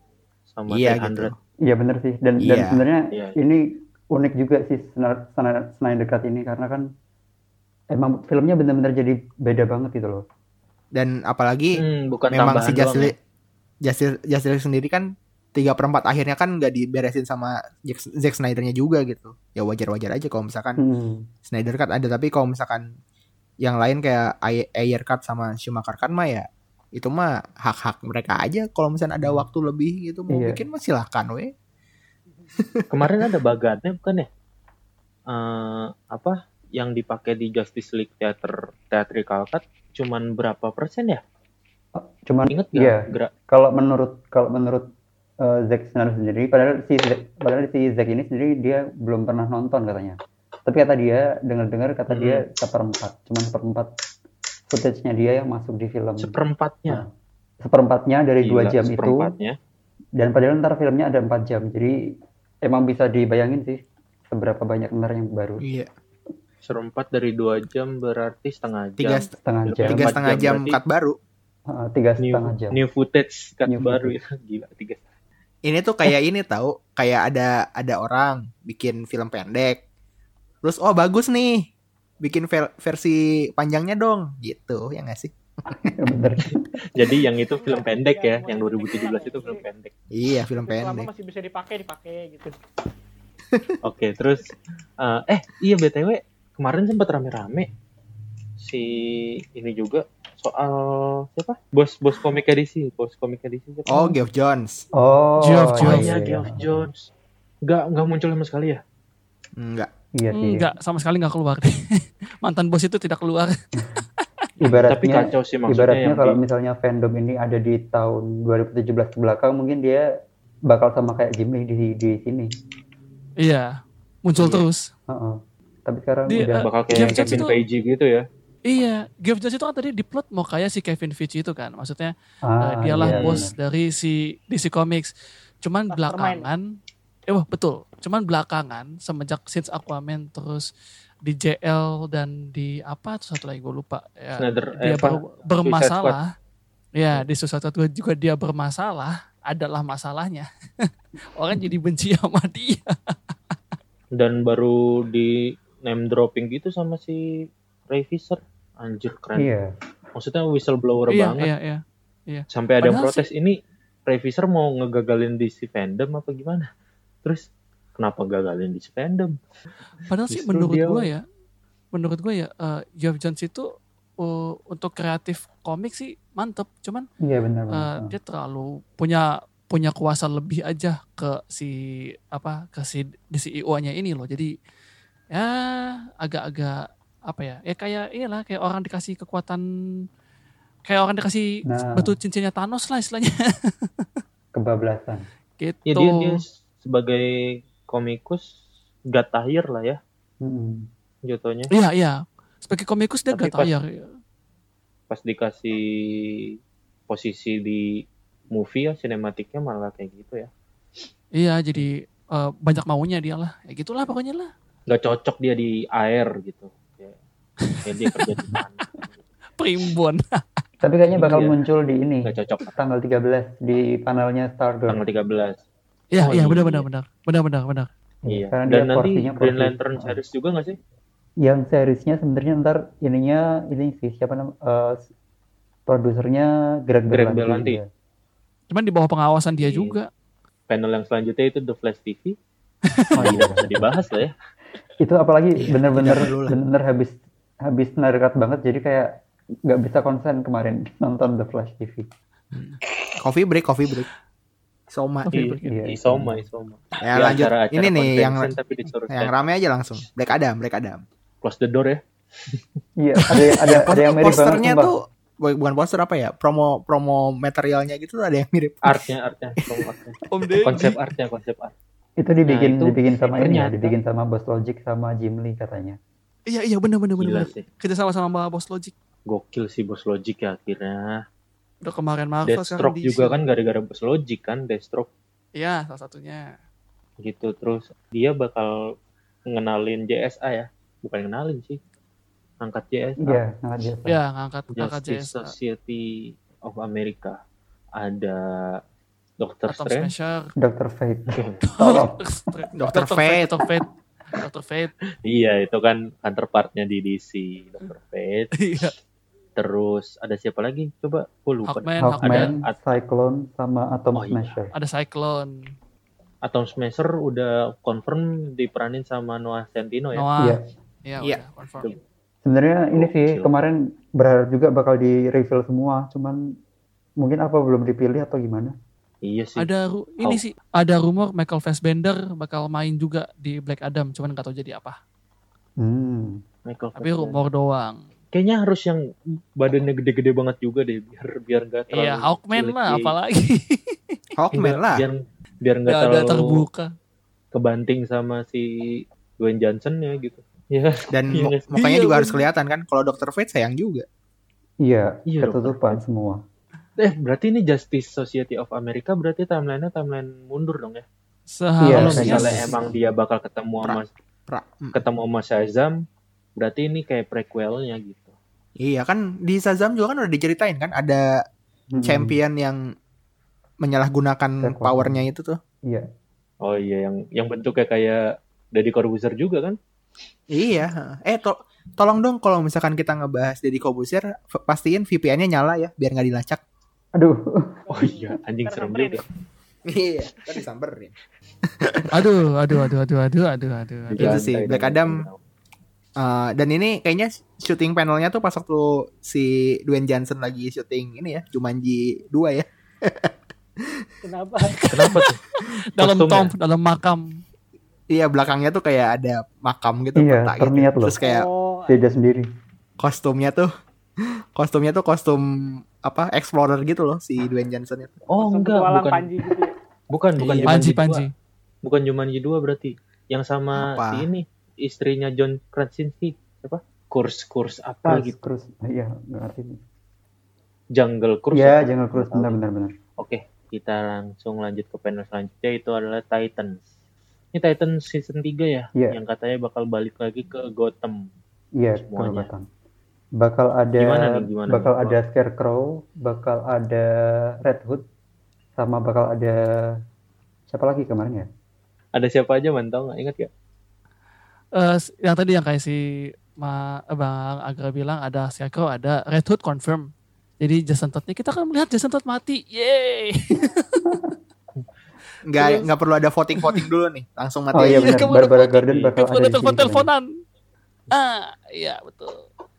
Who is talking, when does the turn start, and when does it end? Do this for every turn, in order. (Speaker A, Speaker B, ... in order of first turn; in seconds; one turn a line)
Speaker A: 0.6-1.3
Speaker B: 0.7-1.4
Speaker C: 1.7-6.9
Speaker B: 2.4-2.8
Speaker A: 3.1-3.4
Speaker C: 7.9-10.2
Speaker B: 10.9-11.8
Speaker A: 11.8-13.1
Speaker B: 12.3-13.1
Speaker B: 13.8-20.8
Speaker C: 20.8-21.3
Speaker B: 21.4-22.9
Speaker B: 23.6-31.5
Speaker C: 30.3-30.6
Speaker B: 32.6-33.1
Speaker A: 32.9-34.3
Speaker A: 35.3-41.2
Speaker C: 42.0-44.9
Speaker A: 42.5-43.3
Speaker C: 45.4-53.9
Speaker A: 52.1-52.4
Speaker C: 54.7-56.4
Speaker A: 56.2-57.0
Speaker C: 57.6-59.3
Speaker A: 58.4-59.6
Speaker C: 60.2-62.0
Speaker C: 62.6-65.6
Speaker B: 65.6-65.9
Speaker A: 66.7-70.8
Speaker B: 69.0-71.2
Speaker C: 69.4-70.2
Speaker C: 71.7-72.8
Speaker A: 72.2-75.0
Speaker C: 73.7-74.2
Speaker B: 75.7-79.8
Speaker B: 80.6-81.7
Speaker B: 82.2-85.3
Speaker C: 85.7-86.6
Speaker A: 86.9-89.9
Speaker D: 87.6-89.7
Speaker B: 90.1-91.1
Speaker D: 90.6-92.6
Speaker A: 93.8-97.7
Speaker A: 98.6-104.1
Speaker B: 103.9-104.9
Speaker C: 105.0-106.7
Speaker E: 105.4-106.2
Speaker A: 105.8-107.1
Speaker A: 107.7-108.8
Speaker B: 109.6-109.9
Speaker C: 110.2-110.7
Speaker E: 110.3-113.6
Speaker E: 114.2-114.8
Speaker C: 114.6-120.0
Speaker A: 114.9-116.4
Speaker C: 120.7-122.5
Speaker E: 123.4-123.7
Speaker E: 124.2-124.8
Speaker C: 125.1-127.4
Speaker E: 126.3-127.6
Speaker A: 126.6-128.2
Speaker E: 128.7-135.1
Speaker C: 132.5-133.5
Speaker A: 133.1-133.5
Speaker E: 135.6-136.7
Speaker D: 135.9-136.5
Speaker E: 137.3-140.7
Speaker E: 141.3-146.3
Speaker A: 144.4-146.2
Speaker E: 147.0-153.2
Speaker A: 154.2-159.5
Speaker C: 159.4-159.7
Speaker A: 160.2-161.5
Speaker E: 161.1-163.3
Speaker A: 162.5-166.7
Speaker A: 167.2-169.4
Speaker E: 170.1-171.2
Speaker A: 170.3-171.1
Speaker E: 171.9-177.1
Speaker C: 177.2-178.2
Speaker E: 177.7-181.8
Speaker E: 182.3-184.5
Speaker E: 185.3-189.6
Speaker E: 190.9-194.1
Speaker C: 191.7-192.1
Speaker C: 194.6-195.2
Speaker E: 195.6-196.4
Speaker A: 195.9-197.3
Speaker A: 197.9-198.5
Speaker A: 199.1-200.0
Speaker C: 200.4-200.9
Speaker A: 201.3-201.7
Speaker E: 201.7-204.1
Speaker A: 203.3-203.7
Speaker A: 205.1-206.4
Speaker A: 207.1-208.0
Speaker A: 208.5-210.5
Speaker E: 211.4-214.5
Speaker A: 214.9-217.2
Speaker E: 217.7-218.5
Speaker A: 217.8-219.2
Speaker E: 219.6-220.4
Speaker C: 220.8-225.0
Speaker A: 221.2-221.6
Speaker A: 222.2-222.7
Speaker A: 224.9-225.6
Speaker E: 226.1-227.9
Speaker A: 226.2-226.9
Speaker C: 228.3-230.2
Speaker A: 228.3-230.8
Speaker C: 231.4-235.1
Speaker C: 235.9-237.9
Speaker A: 237.1-237.8
Speaker E: 238.7-240.1
Speaker A: 239.6-240.0
Speaker A: 240.7-242.4
Speaker E: 242.9-243.4
Speaker C: 243.2-243.9
Speaker A: 243.2-244.3
Speaker C: 245.0-249.2
Speaker B: 245.6-246.6
Speaker C: 249.7-252.1
Speaker B: 252.5-254.1
Speaker B: 254.9-255.3
Speaker E: 255.3-255.8
Speaker A: 255.3-259.5
Speaker C: 255.6-256.4
Speaker B: 257.0-258.6
Speaker B: 259.1-261.0
Speaker A: 261.4-262.8
Speaker C: 263.0-264.9
Speaker E: 263.3-263.7
Speaker B: 263.6-269.1
Speaker A: 268.8-271.8
Speaker E: 270.3-270.9
Speaker C: 272.2-276.0
Speaker A: 272.5-274.0
Speaker E: 276.5-278.9
Speaker A: 277.2-277.6
Speaker A: 279.3-281.2
Speaker E: 281.8-283.4
Speaker A: 282.5-285.1
Speaker E: 285.6-286.5
Speaker A: 287.2-288.9
Speaker A: 289.5-291.8
Speaker A: 292.6-293.4
Speaker C: 293.2-294.2
Speaker E: 294.1-295.5
Speaker A: 294.8-297.4
Speaker A: 298.0-298.8
Speaker A: 299.4-300.1
Speaker E: 299.7-300.5
Speaker C: 300.6-302.2
Speaker A: 301.3-301.6
Speaker E: 301.7-304.9
Speaker B: 302.8-303.6
Speaker A: 305.2-308.6
Speaker E: 308.6-308.9
Speaker A: 309.6-312.8
Speaker E: 311.7-312.5
Speaker C: 312.0-314.7
Speaker A: 314.1-314.5
Speaker E: 314.7-315.5
Speaker A: 316.4-320.3
Speaker E: 320.1-321.9
Speaker C: 322.4-326.4
Speaker A: 322.9-323.5
Speaker C: 327.2-328.8
Speaker A: 329.2-329.7
Speaker E: 329.6-335.0
Speaker C: 335.8-336.4
Speaker A: 336.7-337.4
Speaker E: 337.0-338.0
Speaker A: 338.3-339.0
Speaker A: 339.6-343.1
Speaker E: 341.9-343.9
Speaker B: 344.4-345.1
Speaker A: 344.5-346.6
Speaker E: 345.9-346.9
Speaker A: 347.5-351.7
Speaker B: 351.1-354.1
Speaker E: 351.8-352.5
Speaker C: 354.8-356.4
Speaker A: 355.3-356.0
Speaker A: 357.0-361.1
Speaker E: 361.5-362.8
Speaker C: 361.8-362.9
Speaker A: 362.0-364.1
Speaker B: 363.8-364.9
Speaker A: 364.9-366.0
Speaker A: 366.6-368.3
Speaker B: 368.8-371.3
Speaker C: 372.0-372.4
Speaker B: 372.0-372.8
Speaker B: 373.8-375.6
Speaker C: 374.6-375.2
Speaker A: 376.6-379.8
Speaker B: 380.5-386.6
Speaker C: 387.2-387.8
Speaker A: 387.9-389.3
Speaker D: 387.9-389.2
Speaker B: 389.9-391.1
Speaker B: 391.8-392.9
Speaker E: 392.1-394.4
Speaker A: 394.1-395.4
Speaker B: 394.2-395.3
Speaker B: 396.2-404.1
Speaker D: 404.2-404.8
Speaker E: 404.8-407.4
Speaker A: 404.9-405.4
Speaker A: 406.0-406.5
Speaker B: 408.1-411.4
Speaker C: 410.2-411.2
Speaker D: 411.2-412.1
Speaker C: 411.9-412.5
Speaker B: 413.0-413.7
Speaker B: 414.6-418.1
Speaker A: 418.3-419.3
Speaker D: 418.4-419.7
Speaker A: 420.1-421.3
Speaker B: 420.4-420.9
Speaker E: 420.7-421.3
Speaker A: 421.8-428.4
Speaker B: 423.8-424.3
Speaker C: 428.1-429.8
Speaker A: 430.9-432.6
Speaker C: 431.5-432.9
Speaker A: 433.2-436.9
Speaker A: 437.5-441.3
Speaker C: 441.8-442.7
Speaker A: 442.0-442.5
Speaker C: 443.4-447.1
Speaker A: 444.0-445.2
Speaker C: 447.6-448.0
Speaker C: 448.8-450.0
Speaker C: 450.7-451.5
Speaker A: 452.1-453.5
Speaker E: 454.8-456.0
Speaker E: 456.5-464.1
Speaker B: 465.4-468.3
Speaker C: 467.7-470.1
Speaker E: 467.8-470.3
Speaker E: 471.1-472.4